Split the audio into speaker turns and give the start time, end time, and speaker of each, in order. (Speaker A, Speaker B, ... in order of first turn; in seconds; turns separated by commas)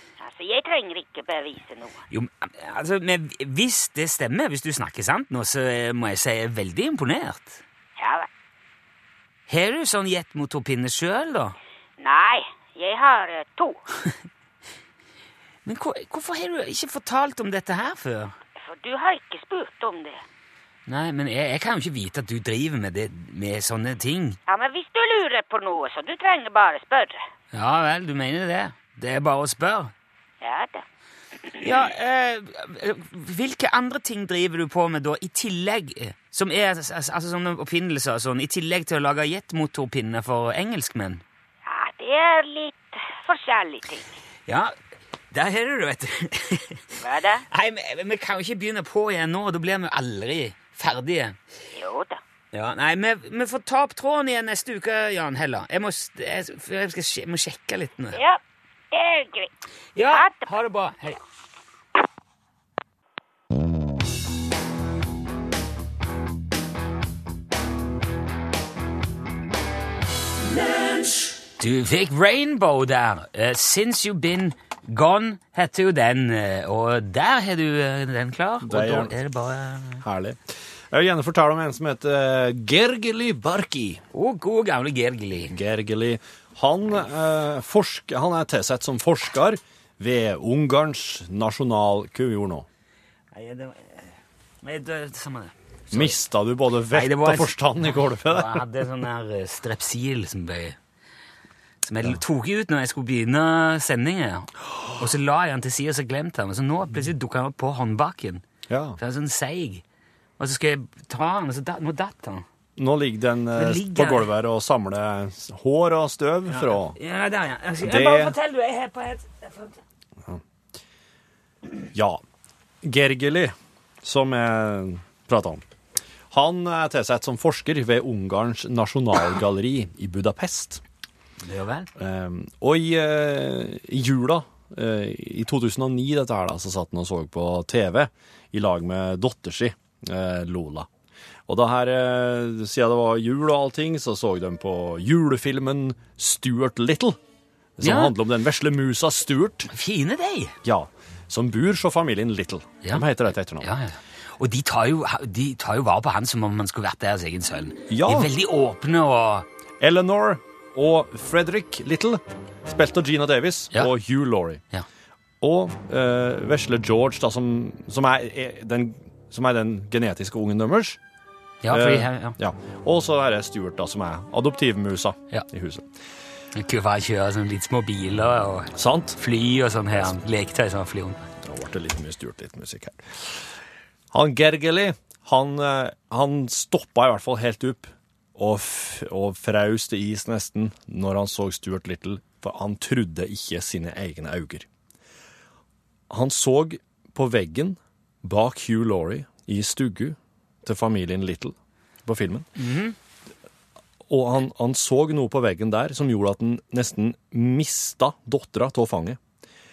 Speaker A: 0.2-2.0, Speaker B: 2.1-7.6, Speaker A: 8.0-8.3, Speaker B: 9.5-11.6, Speaker A: 12.0-13.8, Speaker B: 15.7-18.4, Speaker A: 18.6-20.2, Speaker B: 20.9-24.4, Speaker A: 24.5-27.2, Speaker B: 27.5-29.9, Speaker A: 30.4-30.8, Speaker A: 31.4-31.7, Speaker B: 31.6-41.2, Speaker A: 41.7-44.1, Speaker B: 44.5-44.7, Speaker B: 45.3-51.4, Speaker A: 47.0-47.5, Speaker A: 51.7-52.2, Speaker B: 52.5-58.2, Speaker A: 58.1-58.4, Speaker A: 58.9-59.5, Speaker B: 60.0-61.2, Speaker A: 60.1-60.5, Speaker B: 71.6-80.0, Speaker C: 78.6-79.2, Speaker C: 80.0-84.0, Speaker B: 84.1-85.5, Speaker C: 85.5-92.7, Speaker B: 93.3-96.2, Speaker C: 95.9-98.6, Speaker B: 96.9-100.8, Speaker B: 101.8-108.4, Speaker C: 108.7-109.0, Speaker B: 109.0-109.8, Speaker B: 110.4-112.4, Speaker C: 112.8-117.0, Speaker B: 113.5-114.3, Speaker B: 116.5-119.8, Speaker C: 117.8-118.3, Speaker C: 121.9-122.2, Speaker C: 122.8-125.6, Speaker C: 126.3-130.8, Speaker B: 131.4-131.9, Speaker C: 132.0-140.9, Speaker C: 141.5-147.2, Speaker C: 147.8-149.7, Speaker B: 147.8-148.1, Speaker B: 149.7-150.6, Speaker C: 150.6-153.7, Speaker B: 153.6-159.5, Speaker C: 157.9-158.3, Speaker C: 159.8-164.6, Speaker C: 165.4-171.0, Speaker B: 171.6-172.4, Speaker C: 171.7-175.9, Speaker B: 176.5-181.2, Speaker C: 178.8-179.2, Speaker C: 181.4-183.5, Speaker C: 184.1-194.7, Speaker C: 196.1-202.5, Speaker B: 202.6-203.0, Speaker C: 204.1-209.2